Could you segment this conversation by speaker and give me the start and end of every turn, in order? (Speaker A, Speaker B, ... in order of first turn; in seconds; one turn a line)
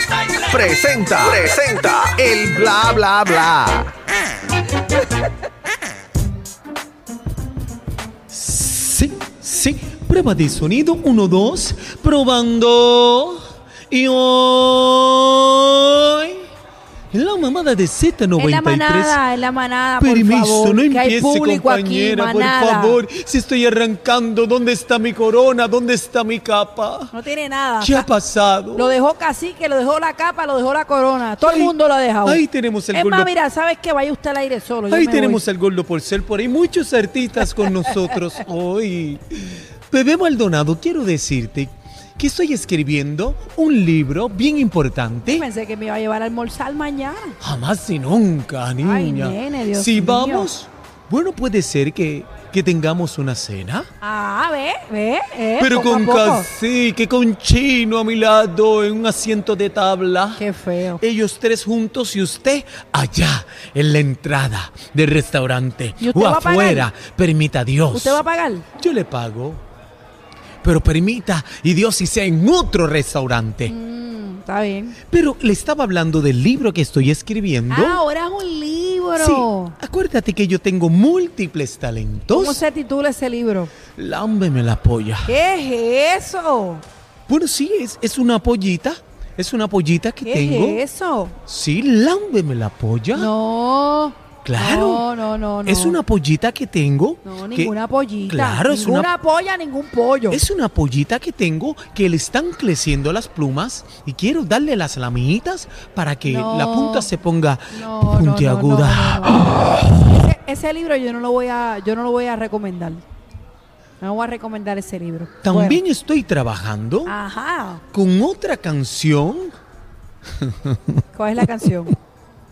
Speaker A: 0.4-3.9
Speaker B: 8.3-16.4
Speaker B: 17.1-19.2
Speaker C: 18.4-23.0
Speaker B: 20.0-27.1
Speaker C: 27.1-28.1
Speaker B: 27.8-29.0
Speaker C: 28.7-35.4
Speaker B: 31.4-33.3
Speaker B: 34.9-45.4
Speaker C: 37.6-38.0
Speaker C: 45.2-47.4
Speaker B: 47.4-53.9
Speaker C: 48.8-50.5
Speaker C: 54.0-56.5
Speaker B: 55.6-60.4
Speaker C: 60.4-61.0
Speaker B: 61.0-68.2
Speaker C: 66.0-66.9
Speaker C: 67.9-68.7
Speaker B: 68.8-69.6
Speaker B: 70.6-73.7
Speaker C: 73.7-75.0
Speaker B: 75.1-78.0
Speaker C: 77.7-79.8
Speaker B: 79.2-82.6
Speaker C: 82.3-83.7
Speaker B: 83.9-85.3
Speaker C: 85.2-86.8
Speaker B: 87.3-90.8
Speaker C: 90.2-91.3
Speaker B: 91.5-93.3
Speaker C: 93.1-96.0
Speaker B: 94.4-95.0
Speaker B: 95.6-97.7
Speaker C: 97.2-100.4
Speaker B: 98.3-99.1
Speaker B: 100.3-109.7
Speaker C: 106.2-107.1
Speaker C: 107.7-113.0
Speaker C: 114.0-115.8
Speaker B: 115.4-117.1
Speaker C: 117.0-117.8
Speaker B: 117.9-119.5
Speaker B: 120.3-121.4
Speaker C: 121.1-121.9